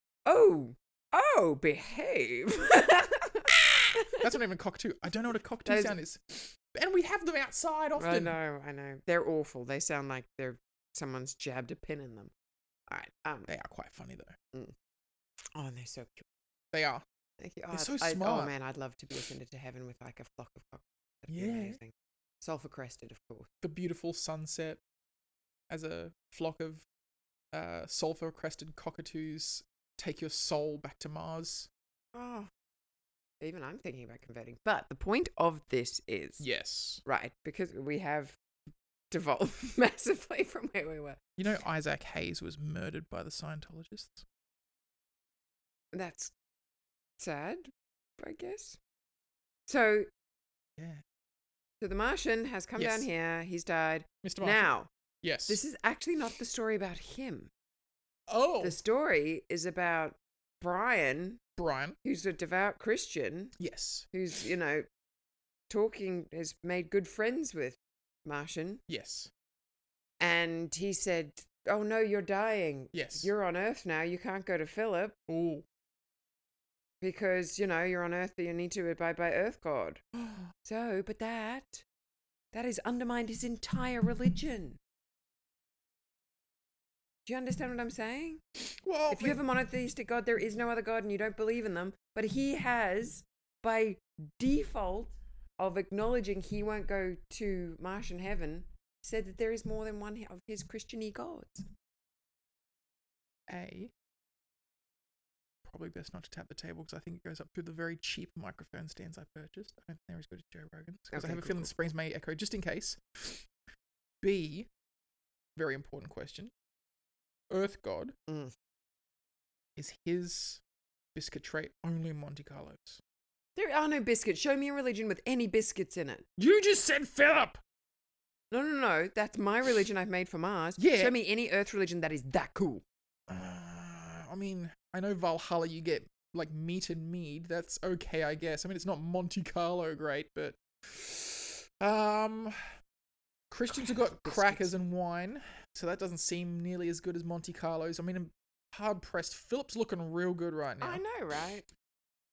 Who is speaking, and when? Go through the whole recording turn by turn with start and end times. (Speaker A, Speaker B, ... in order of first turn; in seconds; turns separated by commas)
Speaker A: 0.3-4.3, Speaker B: 3.5-8.3, Speaker A: 5.7-6.0, Speaker A: 8.0-12.3, Speaker A: 12.9-13.5, Speaker B: 13.5-14.4, Speaker A: 15.6-16.3, Speaker B: 16.7-17.0, Speaker A: 17.4-23.5, Speaker B: 17.7-18.5, Speaker B: 21.3-21.8, Speaker B: 23.6-24.8, Speaker B: 25.7-26.9, Speaker B: 27.5-31.7, Speaker A: 32.1-32.5, Speaker A: 33.4-36.5, Speaker B: 36.4-37.0, Speaker A: 37.0-38.4, Speaker A: 39.1-41.2, Speaker B: 41.4-44.2, Speaker A: 45.9-46.3, Speaker A: 47.2-48.8, Speaker A: 49.7-50.1, Speaker B: 50.8-51.0, Speaker A: 51.8-54.9, Speaker B: 52.8-53.1, Speaker B: 54.2-54.7, Speaker B: 55.2-55.6, Speaker A: 55.5-57.5, Speaker B: 58.3-58.8, Speaker A: 58.6-61.4, Speaker B: 61.6-62.0, Speaker A: 62.0-63.5, Speaker B: 63.6-64.1, Speaker A: 64.1-64.9, Speaker A: 65.7-68.8, Speaker B: 68.9-69.3, Speaker A: 70.2-75.2, Speaker B: 72.9-73.3, Speaker B: 75.3-75.7, Speaker A: 77.0-80.0, Speaker B: 80.2-80.5, Speaker A: 80.6-81.8, Speaker A: 82.5-84.8, Speaker A: 87.3-88.4, Speaker B: 88.7-89.4, Speaker A: 89.1-101.7, Speaker B: 103.5-103.9, Speaker B: 105.7-113.5, Speaker A: 111.1-111.7, Speaker B: 114.2-114.7, Speaker B: 115.6-116.5, Speaker B: 117.5-118.2, Speaker A: 118.3-118.5, Speaker B: 119.8-120.6, Speaker B: 121.2-123.0, Speaker A: 123.6-126.3, Speaker B: 126.4-127.6, Speaker A: 128.5-132.8, Speaker B: 130.8-131.1, Speaker B: 133.3-142.6, Speaker B: 143.5-151.0, Speaker A: 143.7-144.7, Speaker A: 150.8-151.7